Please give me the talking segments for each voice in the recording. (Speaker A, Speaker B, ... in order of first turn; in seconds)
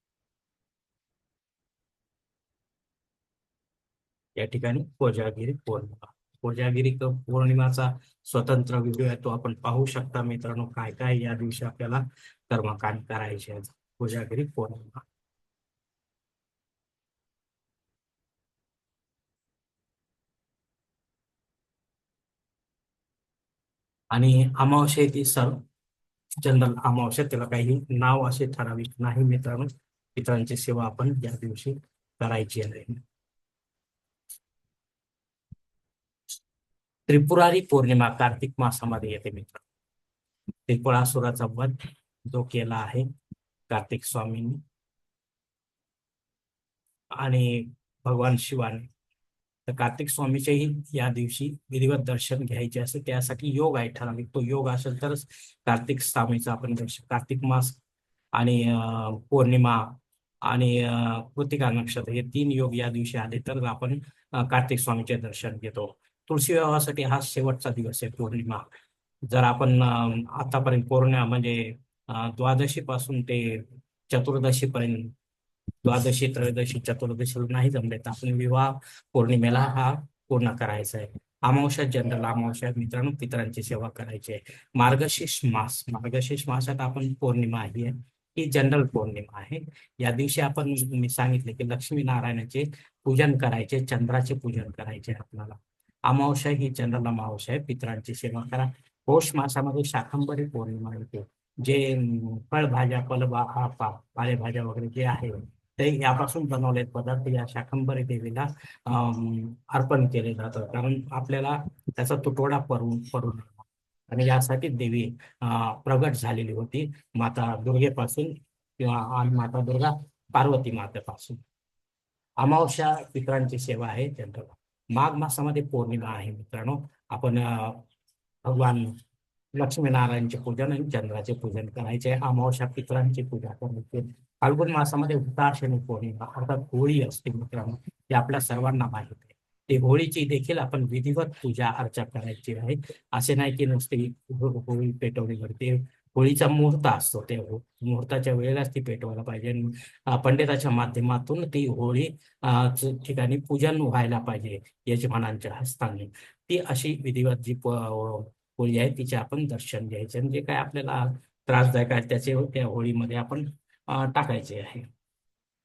Speaker A: 4.4-15.1, 24.1-25.6, 26.4-33.0, 37.1-39.6, 40.7-43.1, 43.7-44.6, 47.2-48.9, 49.7-57.8, 58.4-68.7, 69.3-75.1, 75.8-121.4, 122.4-127.8, 128.4-128.9, 129.6-164.9